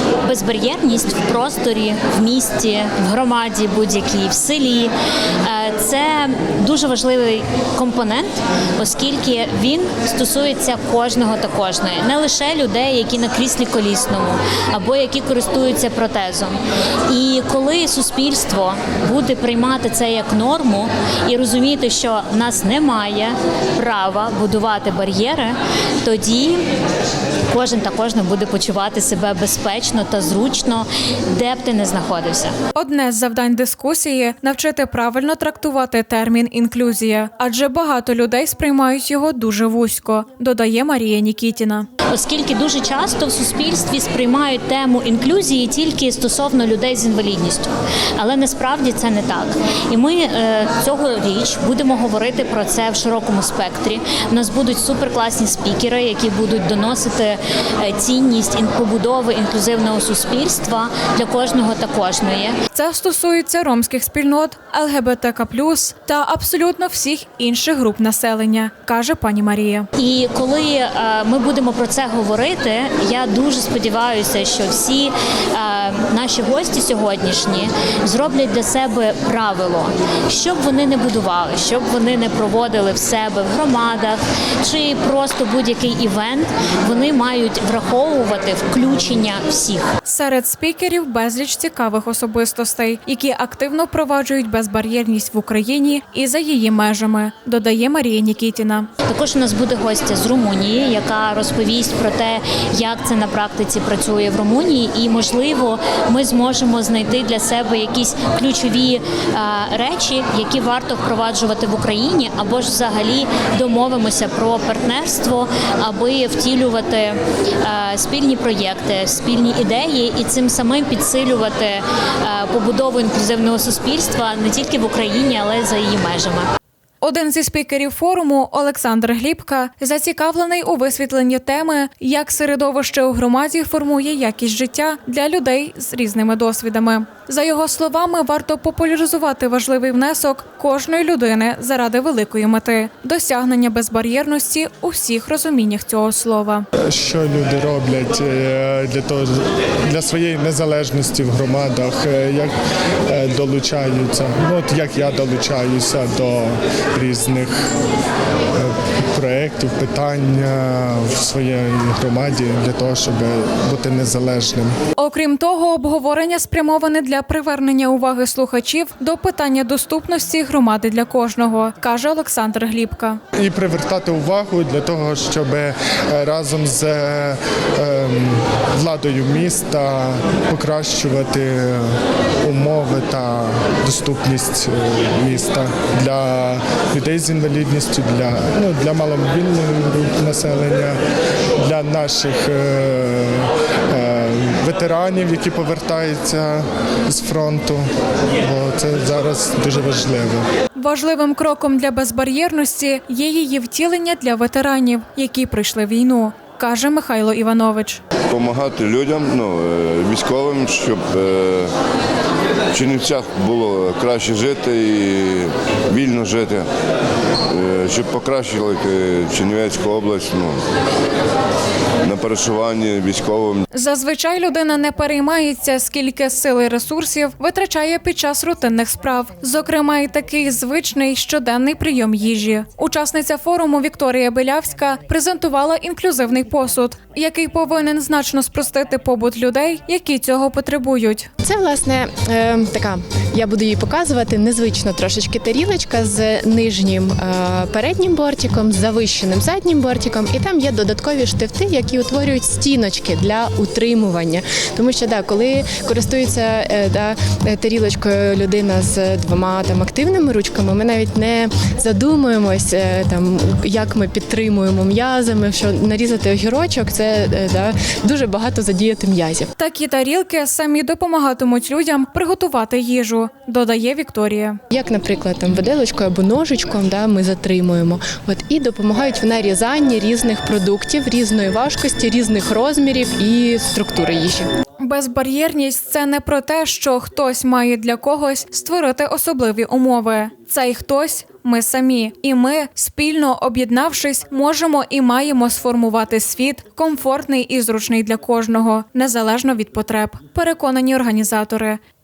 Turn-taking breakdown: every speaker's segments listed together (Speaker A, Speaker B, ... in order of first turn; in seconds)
Speaker A: 0.3-4.9, 5.4-26.6, 27.5-32.5, 42.1-62.5, 70.0-89.9, 99.1-126.5
Speaker B: 32.7-41.9, 62.7-69.9, 90.0-98.9, 127.0-146.7, 165.0-173.2, 200.8-208.0, 223.7-241.3, 269.6-274.6, 284.8-301.8
Speaker C: 146.8-152.5, 153.1-157.7, 158.5-164.7, 173.3-191.0, 191.6-197.9, 198.4-200.5
Speaker D: 208.3-211.7, 212.7-216.7, 217.5-220.6, 222.0-223.6
Speaker E: 241.4-269.5, 274.7-284.5